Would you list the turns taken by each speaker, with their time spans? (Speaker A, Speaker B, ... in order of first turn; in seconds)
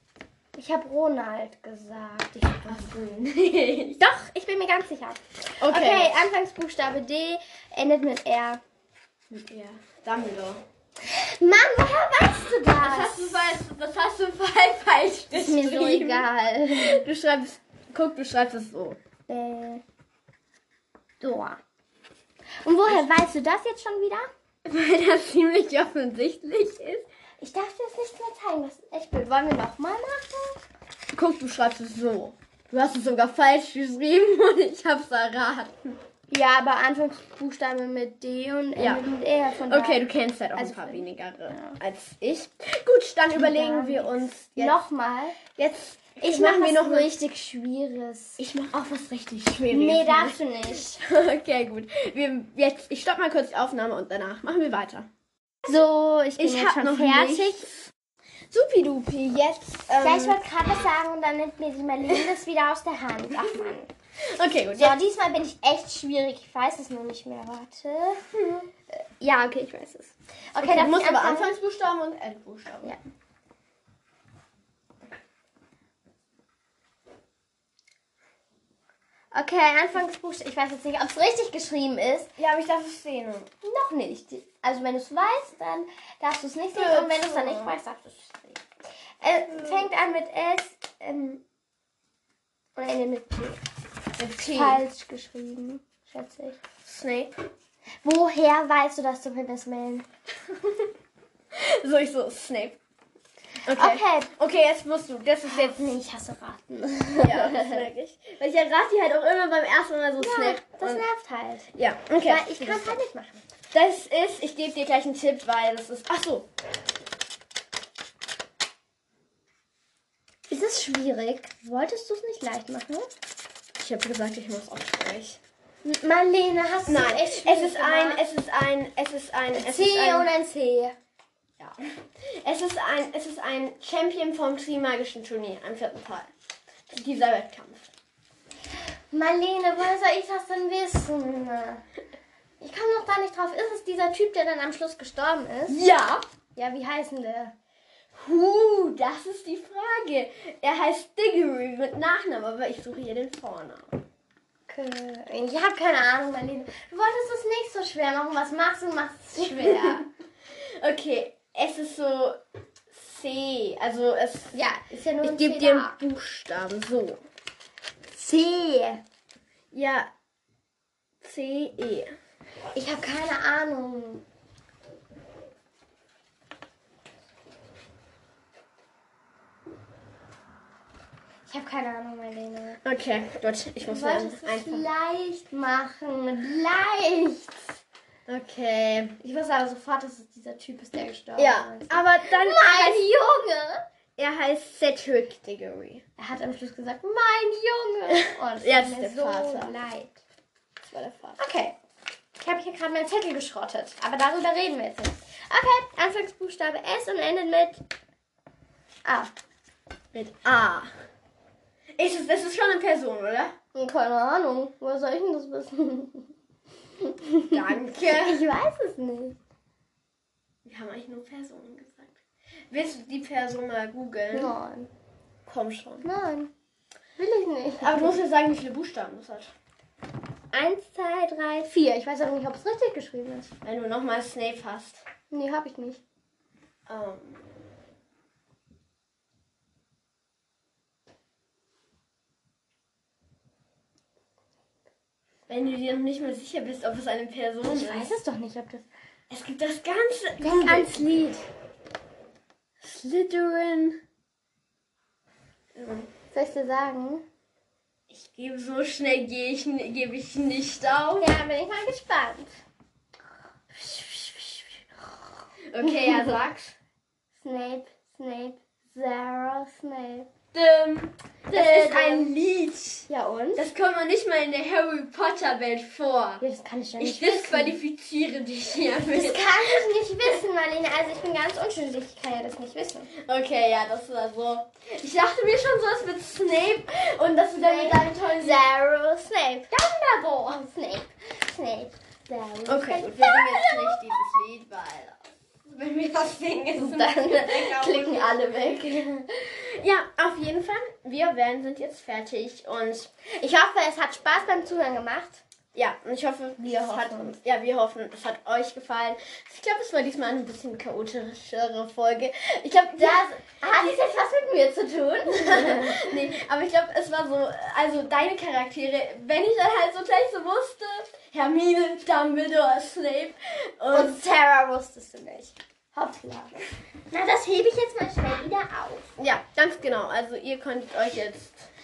Speaker A: 0.5-2.9, 4.0-8.6, 11.1-13.4, 15.3-17.0, 19.3-19.8, 21.2-21.6, 22.6-24.3, 27.4-30.6, 36.3-40.0, 40.5-41.8, 43.3-45.4, 46.2-48.4, 49.7-51.0, 55.6-57.7, 60.0-63.9, 64.8-68.2, 68.9-71.5, 79.3-82.3, 83.6-88.6, 89.2-91.4, 92.8-93.6, 94.4-96.6, 98.0-100.0, 103.7-104.3, 105.4-107.8, 110.2-111.7, 112.2-113.4, 120.5-123.1, 125.8-128.2, 129.5-131.0, 139.1-141.8, 142.6-145.8, 146.5-147.5, 154.7-160.1, 164.5-165.9, 168.1-169.0, 172.7-174.2, 181.5-182.8, 183.9-187.6, 189.2-193.9, 196.2-200.2, 201.4-201.8, 202.4-207.8, 209.0-209.3, 213.8-216.3, 217.0-219.4, 224.3-224.9, 226.0-226.5, 227.2-228.2, 230.5-233.5, 235.3-236.0, 247.6-248.9, 250.4-251.5, 256.3-257.2, 261.2-262.6, 263.7-266.3, 267.4-270.3, 271.5-272.4, 273.1-273.6, 276.4-277.8, 279.1-283.1, 287.5-294.1, 296.8-299.3, 303.3-305.4, 306.6-307.4, 312.9-316.2, 323.9-329.1
Speaker B: 2.6-4.0, 5.6-6.2, 9.3-10.6, 12.8-19.0, 24.6-27.1, 31.1-36.0, 38.8-39.1, 39.7-44.8, 45.5-47.1, 48.4-55.1, 56.4-57.9, 58.5-60.4, 64.4-65.0, 68.3-68.7, 70.6-73.0, 82.4-83.5, 86.7-87.7, 94.2-94.8, 96.8-97.3, 101.5-102.8, 103.7-105.8, 107.2-111.0, 111.7-113.0, 113.7-116.5, 123.8-125.4, 126.9-130.3, 131.6-136.3, 136.9-137.9, 145.7-146.2, 148.1-154.0, 159.5-160.0, 160.8-162.4, 162.9-164.6, 165.2-167.2, 169.7-170.1, 171.2-172.1, 182.8-184.9, 188.3-189.2, 191.4-193.1, 194.2-196.0, 198.5-199.8, 200.9-201.4, 210.1-210.9, 212.0-213.5, 217.5-218.5, 220.6-222.2, 222.7-224.5, 225.5-226.1, 227.8-229.5, 233.6-235.0, 236.9-237.4, 245.5-248.1, 249.3-251.1, 252.8-254.0, 255.8-256.1, 258.1-261.3, 265.7-266.8, 270.5-276.4, 277.0-280.4, 283.2-288.6, 292.6-298.8, 299.5-303.1, 305.8-314.0, 315.4-324.2, 329.2-331.7